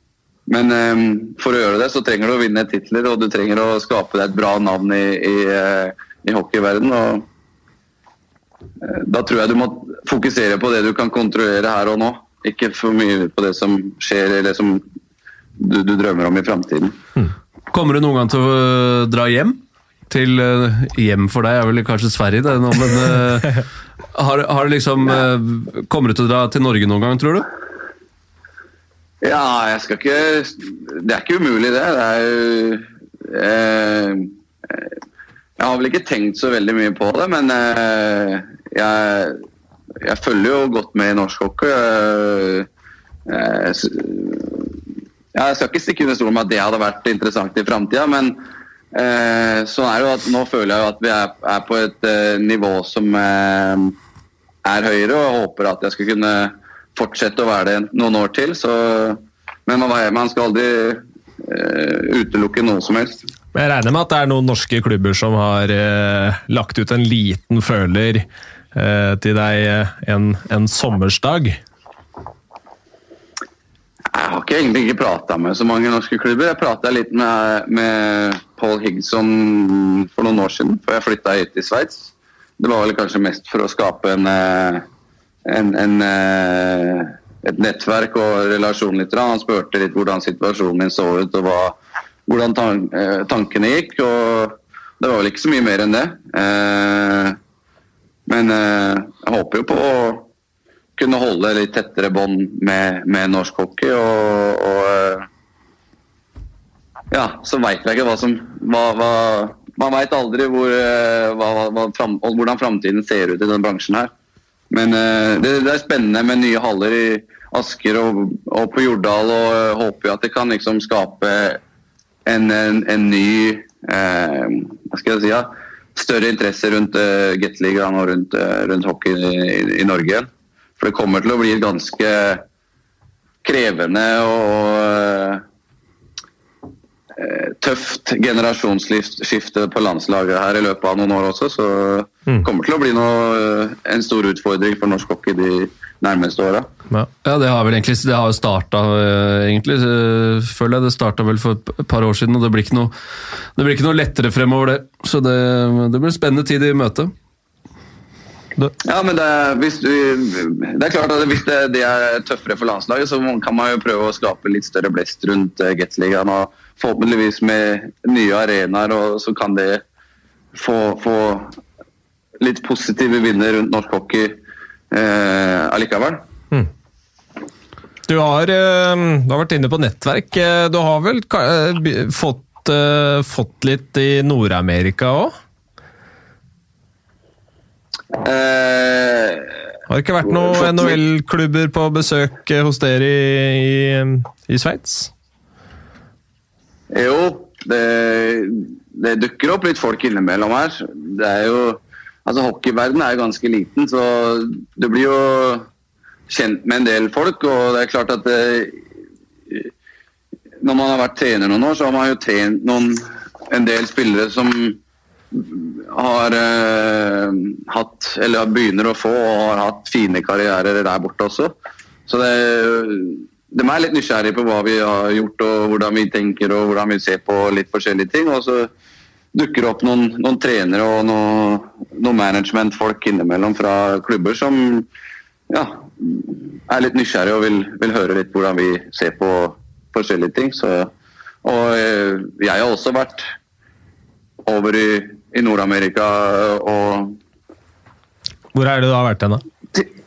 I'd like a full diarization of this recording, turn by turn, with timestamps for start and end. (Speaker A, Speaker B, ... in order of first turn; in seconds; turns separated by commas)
Speaker A: 0.5-7.3, Speaker A: 8.8-14.8, Speaker A: 15.6-17.0, Speaker B: 17.7-19.6, Speaker B: 20.1-27.5, Speaker A: 29.2-34.9, Speaker A: 35.6-39.4, Speaker A: 40.0-42.7, Speaker A: 43.2-44.8, Speaker A: 45.3-54.0, Speaker A: 54.6-63.2, Speaker C: 63.5-71.6, Speaker A: 74.1-84.8, Speaker A: 85.5-97.4, Speaker A: 98.3-100.3, Speaker A: 101.0-105.3, Speaker A: 107.1-114.1, Speaker A: 114.7-121.6, Speaker A: 122.2-130.3, Speaker A: 130.8-132.4, Speaker A: 133.4-135.4, Speaker A: 137.2-146.7, Speaker B: 147.2-152.9, Speaker B: 153.6-157.1, Speaker A: 158.8-169.8, Speaker A: 170.5-171.6, Speaker A: 172.4-174.4, Speaker A: 174.9-176.2, Speaker C: 178.1-185.3, Speaker A: 188.1-189.6, Speaker C: 189.9-195.1, Speaker A: 190.3-191.0, Speaker A: 196.9-205.7, Speaker A: 206.3-208.8, Speaker A: 210.6-214.8, Speaker A: 215.3-221.5, Speaker A: 222.1-228.7, Speaker A: 229.3-234.9, Speaker A: 235.5-240.9, Speaker A: 241.4-243.3, Speaker A: 244.4-247.2, Speaker C: 248.5-249.4